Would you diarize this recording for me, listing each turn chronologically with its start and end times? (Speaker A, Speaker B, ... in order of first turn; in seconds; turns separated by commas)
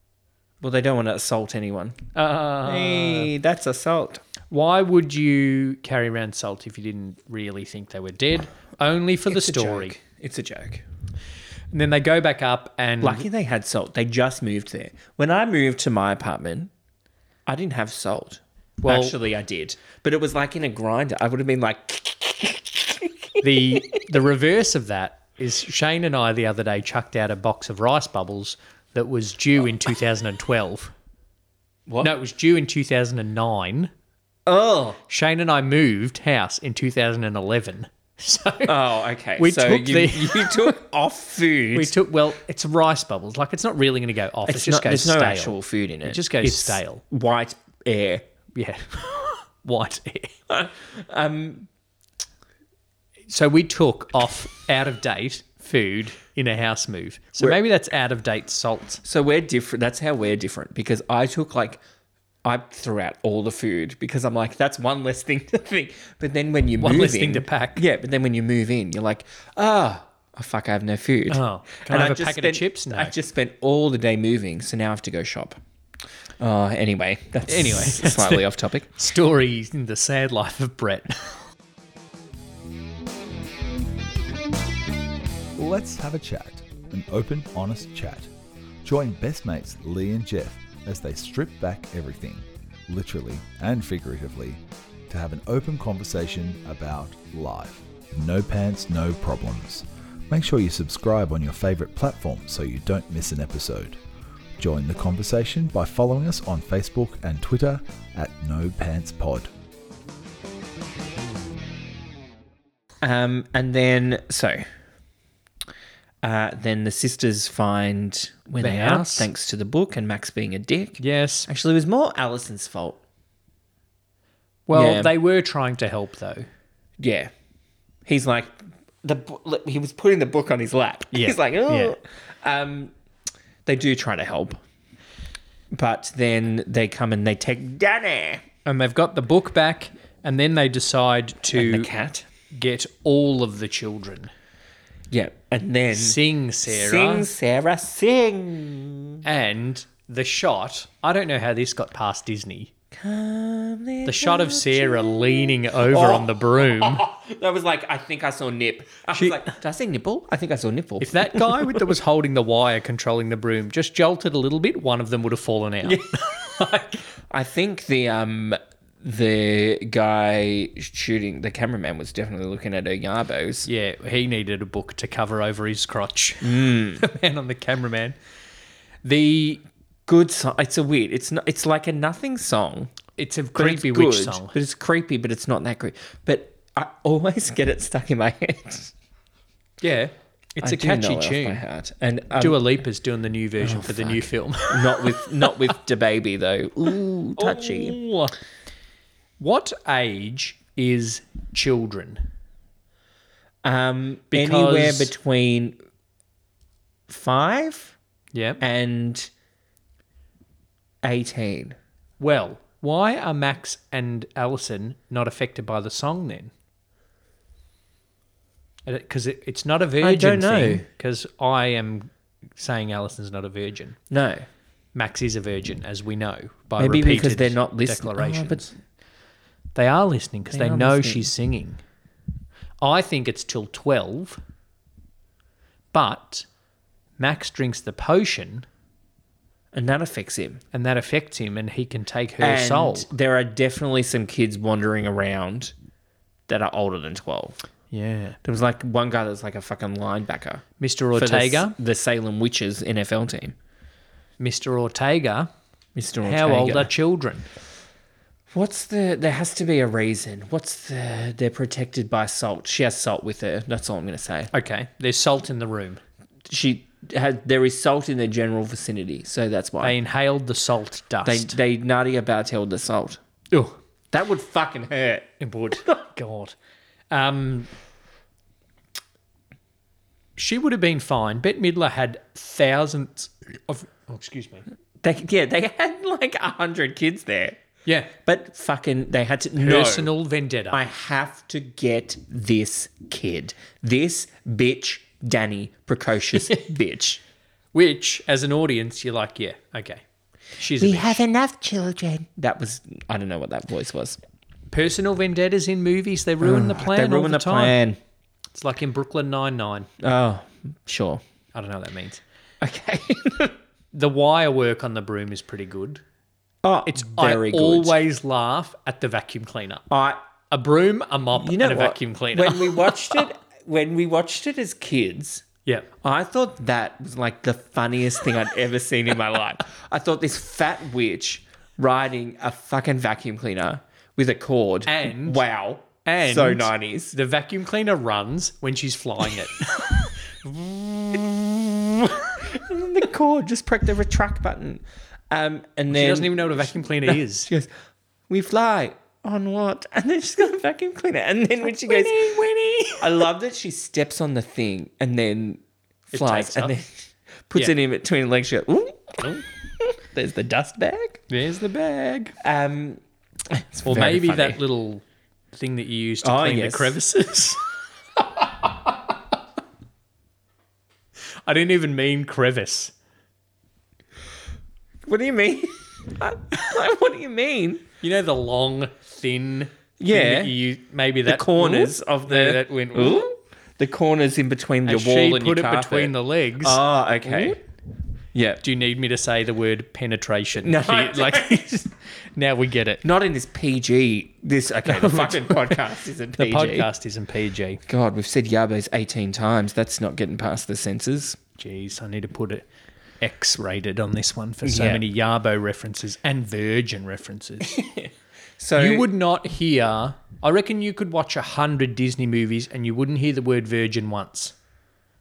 Speaker A: 0.6-2.0, Speaker B: 2.1-3.3, Speaker A: 2.6-4.2, Speaker B: 4.5-10.0, Speaker A: 9.3-10.8, Speaker B: 11.7-13.2, Speaker A: 13.0-16.7, Speaker A: 17.4-24.0, Speaker B: 18.8-19.1, Speaker B: 23.4-30.9, Speaker A: 31.9-32.1, Speaker B: 32.0-33.9, Speaker A: 34.5-35.0, Speaker B: 35.1-38.7, Speaker A: 38.6-41.9, Speaker B: 39.4-40.8, Speaker B: 41.7-47.0, Speaker A: 44.5-48.2, Speaker B: 48.5-50.3, Speaker A: 50.5-51.7, Speaker B: 53.3-59.0, Speaker A: 59.0-61.8, Speaker A: 62.4-75.6, Speaker B: 66.8-67.8, Speaker B: 71.3-73.1, Speaker A: 76.4-78.9, Speaker B: 77.5-81.3, Speaker C: 85.5-88.3, Speaker C: 88.8-104.0, Speaker C: 104.6-109.5, Speaker A: 113.0-114.6, Speaker A: 116.2-123.0, Speaker B: 118.6-119.3, Speaker B: 121.0-121.5, Speaker B: 124.7-126.5, Speaker A: 124.7-125.1, Speaker A: 127.0-127.3, Speaker A: 128.0-132.9, Speaker B: 131.1-131.9, Speaker A: 133.7-134.6, Speaker A: 135.7-138.4, Speaker B: 138.7-141.9, Speaker A: 141.5-142.2, Speaker B: 142.5-144.3, Speaker A: 145.1-149.2, Speaker B: 145.9-147.3, Speaker B: 149.2-152.7, Speaker A: 152.9-161.8, Speaker B: 154.0-157.0, Speaker B: 159.1-159.6, Speaker B: 161.0-167.0, Speaker A: 165.8-173.7, Speaker B: 173.7-178.2, Speaker A: 176.4-177.0, Speaker B: 179.0-179.6, Speaker A: 180.1-182.9, Speaker B: 183.2-184.5, Speaker A: 183.5-188.9, Speaker B: 189.8-191.6, Speaker A: 190.6-192.6, Speaker B: 192.4-195.5, Speaker A: 193.6-198.0, Speaker B: 197.4-198.3, Speaker B: 199.4-202.3, Speaker A: 203.6-205.8, Speaker B: 204.3-205.1, Speaker A: 207.1-207.9, Speaker B: 208.3-208.6, Speaker A: 208.6-209.3, Speaker A: 211.0-211.8, Speaker B: 212.2-216.5, Speaker B: 218.8-224.0, Speaker A: 220.0-220.8, Speaker A: 224.1-224.5, Speaker B: 224.9-228.8, Speaker A: 226.8-228.7, Speaker B: 229.7-231.8, Speaker A: 230.5-231.3, Speaker B: 232.8-234.4, Speaker B: 235.9-236.4, Speaker B: 237.2-238.7, Speaker A: 239.7-240.6, Speaker B: 240.7-243.1, Speaker A: 242.4-245.7, Speaker A: 246.5-247.6, Speaker B: 247.9-248.4, Speaker A: 248.4-250.6, Speaker B: 250.8-251.7, Speaker A: 251.2-253.6, Speaker B: 254.4-255.5, Speaker A: 255.9-256.9, Speaker B: 256.2-257.4, Speaker A: 258.5-264.5, Speaker B: 264.5-266.0, Speaker A: 266.5-269.9, Speaker B: 269.8-271.6, Speaker A: 271.2-273.2, Speaker B: 273.5-273.8, Speaker A: 274.1-275.3, Speaker B: 275.4-276.6, Speaker B: 277.1-277.7, Speaker B: 280.4-284.6, Speaker A: 285.0-287.6, Speaker B: 287.9-288.1, Speaker A: 288.2-290.1, Speaker B: 289.6-290.8, Speaker A: 290.7-297.2, Speaker B: 297.7-300.0, Speaker B: 300.6-301.2, Speaker A: 300.8-304.2, Speaker B: 304.7-307.7, Speaker A: 306.4-308.0, Speaker B: 308.5-309.9, Speaker A: 310.0-311.2, Speaker B: 311.5-312.2, Speaker A: 312.6-313.5, Speaker B: 313.9-316.0, Speaker A: 316.6-317.9, Speaker B: 316.9-319.9, Speaker A: 319.9-320.2, Speaker B: 320.5-323.2, Speaker A: 321.3-325.4, Speaker A: 326.0-337.1, Speaker B: 334.9-335.4, Speaker B: 336.0-341.2, Speaker A: 341.1-347.7, Speaker B: 345.9-347.5, Speaker A: 348.3-352.2, Speaker B: 351.8-353.1, Speaker A: 353.0-361.2, Speaker B: 356.1-356.8, Speaker B: 361.3-362.3, Speaker A: 362.4-364.6, Speaker B: 363.8-367.6, Speaker A: 366.2-367.0, Speaker B: 371.4-372.9, Speaker A: 375.0-377.8, Speaker B: 378.0-383.2, Speaker A: 380.0-380.5, Speaker A: 381.2-387.6, Speaker B: 384.8-387.6, Speaker A: 388.3-388.6, Speaker B: 388.6-391.8, Speaker A: 390.6-391.9, Speaker B: 392.3-393.0, Speaker A: 393.0-396.9, Speaker B: 394.8-395.9, Speaker B: 396.4-397.8, Speaker A: 397.9-401.4, Speaker B: 401.6-402.6, Speaker B: 403.2-407.8, Speaker A: 404.6-405.0, Speaker A: 407.7-409.1, Speaker B: 408.8-414.5